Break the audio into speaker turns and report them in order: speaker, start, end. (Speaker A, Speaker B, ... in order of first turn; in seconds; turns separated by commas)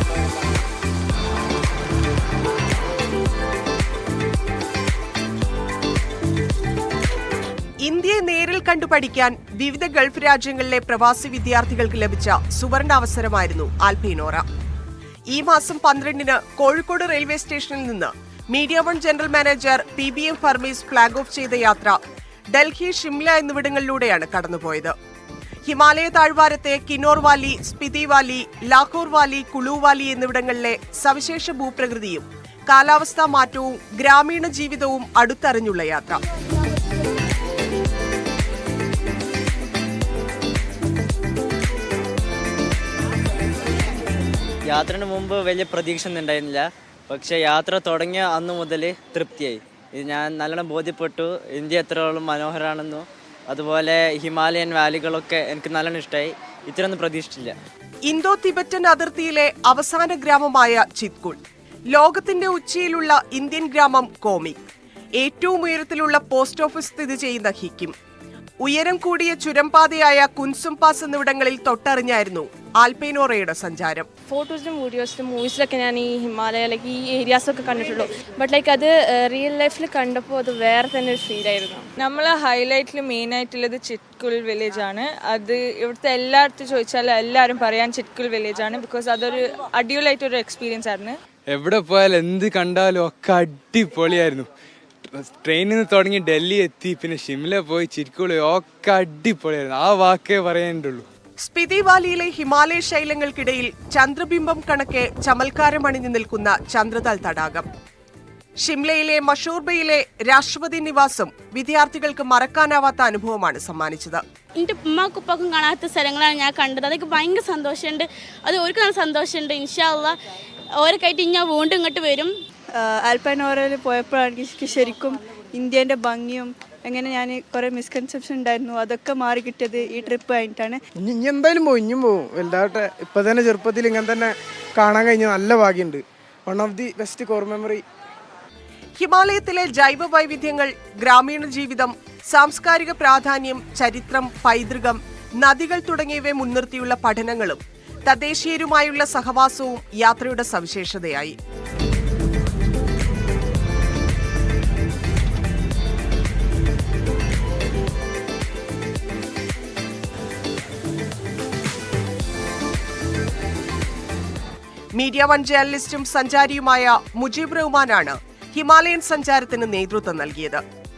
Speaker A: 7.8-14.5, Speaker A: 15.3-22.0, Speaker A: 22.5-24.9, Speaker A: 25.7-36.2, Speaker B: 44.7-57.5, Speaker A: 58.1-61.4, Speaker A: 61.9-64.6, Speaker A: 65.2-68.0, Speaker A: 68.6-74.1, Speaker C: 74.3-81.9, Speaker D: 82.0-91.2, Speaker E: 91.5-94.5, Speaker E: 95.2-101.0, Speaker A: 101.4-107.7, Speaker A: 108.6-114.2, Speaker F: 114.6-120.1, Speaker F: 120.8-122.3, Speaker G: 122.8-130.8, Speaker H: 131.0-137.8, Speaker A: 139.0-151.4, Speaker A: 165.0-170.6